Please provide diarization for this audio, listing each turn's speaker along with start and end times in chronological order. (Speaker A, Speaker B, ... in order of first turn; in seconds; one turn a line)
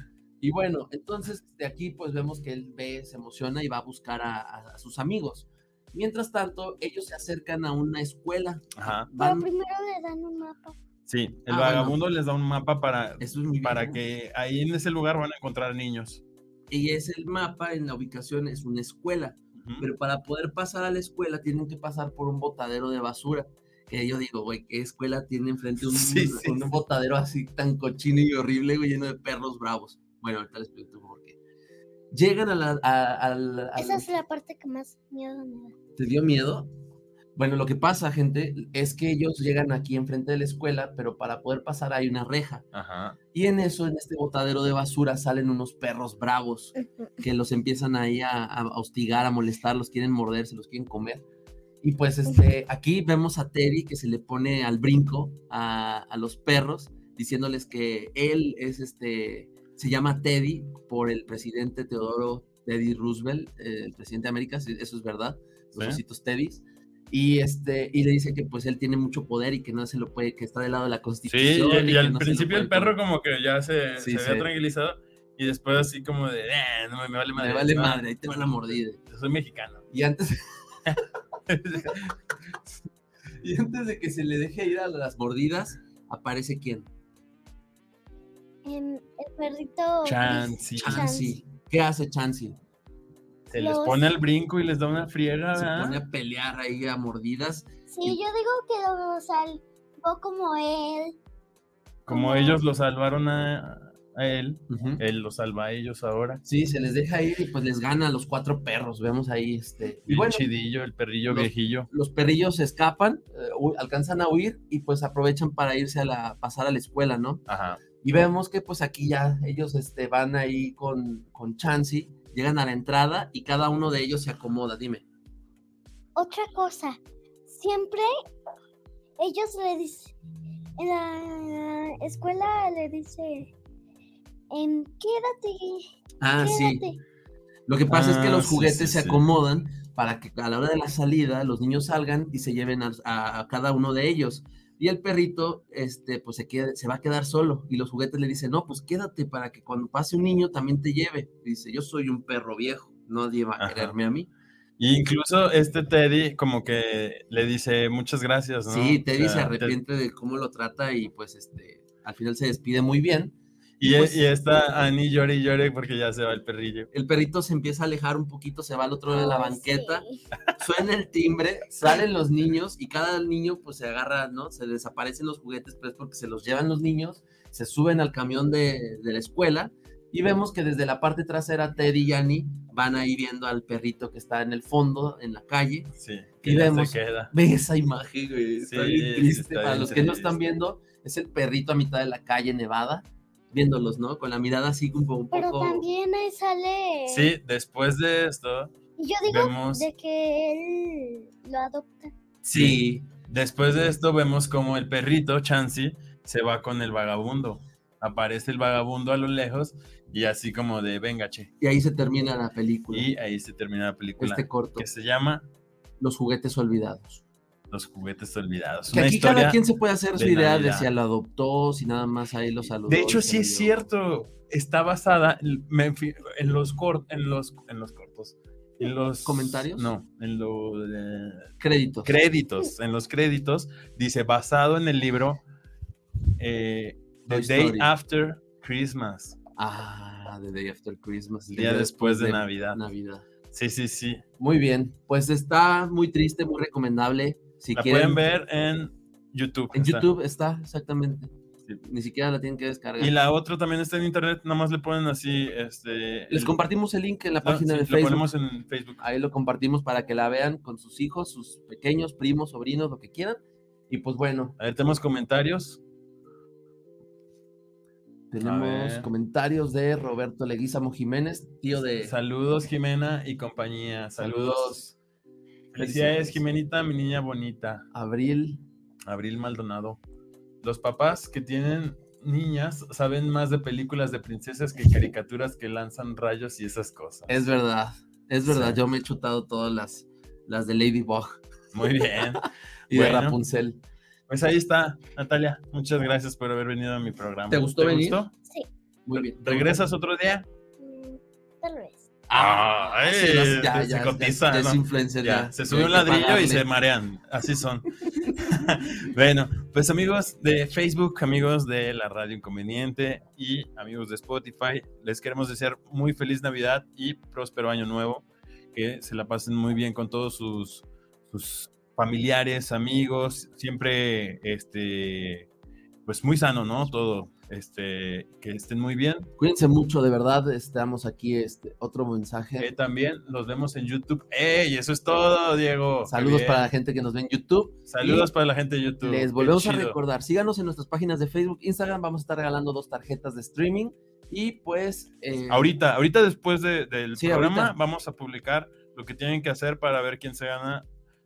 Speaker A: 0.4-9.5
Speaker B: 8.8-9.1
Speaker C: 9.2-10.8
Speaker B: 11.1-16.2
Speaker A: 11.5-12.0
Speaker A: 13.2-14.0
Speaker A: 16.7-31.4
Speaker B: 19.6-19.9
Speaker B: 25.8-26.7
Speaker A: 32.1-34.1
Speaker C: 33.8-35.8
Speaker A: 36.0-36.7
Speaker A: 37.4-42.7
Speaker B: 42.7-43.2
Speaker A: 43.3-51.2
Speaker C: 46.8-47.1
Speaker A: 51.8-73.0
Speaker B: 71.3-78.0
Speaker A: 74.0-74.5
Speaker A: 77.4-79.0
Speaker B: 79.0-79.8
Speaker A: 79.9-81.0
Speaker B: 80.9-82.2
Speaker A: 83.4-86.9
Speaker C: 88.7-91.4
Speaker B: 90.0-91.1
Speaker A: 90.8-92.6
Speaker B: 93.5-96.0
Speaker C: 93.5-94.1
Speaker A: 95.5-98.2
Speaker C: 97.9-101.2
Speaker B: 102.1-106.4
Speaker C: 102.1-102.6
Speaker A: 104.7-105.0
Speaker A: 106.5-110.5
Speaker B: 110.1-111.9
Speaker A: 111.3-117.4
Speaker B: 117.5-117.8
Speaker A: 118.0-125.0
Speaker C: 126.2-128.1
Speaker C: 129.2-130.2
Speaker C: 130.8-133.5
Speaker C: 134.5-135.9
Speaker A: 136.2-136.8
Speaker C: 136.4-137.0
Speaker A: 137.7-154.3
Speaker B: 137.9-139.2
Speaker B: 153.6-154.0
Speaker B: 154.8-159.8
Speaker A: 158.7-164.2
Speaker B: 163.8-166.9
Speaker A: 166.9-170.0
Speaker C: 169.1-170.2
Speaker A: 170.6-195.8
Speaker B: 171.7-172.0
Speaker B: 186.0-187.3
Speaker B: 188.6-190.3
Speaker C: 195.3-197.3
Speaker B: 197.1-198.7
Speaker C: 199.0-202.1
Speaker B: 199.2-199.9
Speaker A: 202.4-203.1
Speaker B: 202.5-211.5
Speaker A: 211.6-213.1
Speaker B: 212.9-215.5
Speaker A: 214.2-214.9
Speaker A: 216.0-217.2
Speaker B: 217.7-219.6
Speaker A: 218.9-223.9
Speaker B: 220.1-220.9
Speaker B: 222.8-231.5
Speaker A: 229.2-229.9
Speaker A: 231.6-232.1
Speaker B: 232.1-235.4
Speaker B: 236.4-239.4
Speaker A: 237.3-237.9
Speaker A: 239.6-243.3
Speaker B: 241.5-242.8
Speaker B: 243.5-244.2
Speaker A: 244.4-248.2
Speaker B: 247.7-250.1
Speaker A: 249.7-251.3
Speaker A: 251.8-253.1
Speaker B: 253.0-256.6
Speaker A: 256.3-258.3
Speaker B: 257.4-259.0
Speaker A: 259.0-264.6
Speaker B: 264.6-265.8
Speaker A: 268.3-272.1
Speaker B: 268.4-269.1
Speaker B: 272.0-274.9
Speaker A: 274.2-274.8
Speaker B: 275.7-277.9
Speaker A: 275.8-276.4
Speaker A: 277.9-278.6
Speaker B: 279.1-280.0
Speaker B: 280.6-287.3
Speaker A: 287.3-291.4
Speaker B: 288.4-288.8
Speaker B: 291.7-293.4
Speaker A: 292.0-292.3
Speaker A: 292.9-293.8
Speaker B: 294.3-298.3
Speaker A: 297.5-298.2
Speaker A: 299.1-299.8
Speaker B: 299.1-300.5
Speaker C: 300.8-302.1
Speaker A: 302.3-306.7
Speaker B: 302.3-325.5
Speaker B: 326.1-329.3
Speaker A: 329.4-332.7
Speaker B: 332.6-336.7
Speaker A: 336.1-338.3
Speaker B: 337.9-340.0
Speaker A: 339.0-345.7
Speaker B: 345.5-350.9
Speaker A: 347.2-347.8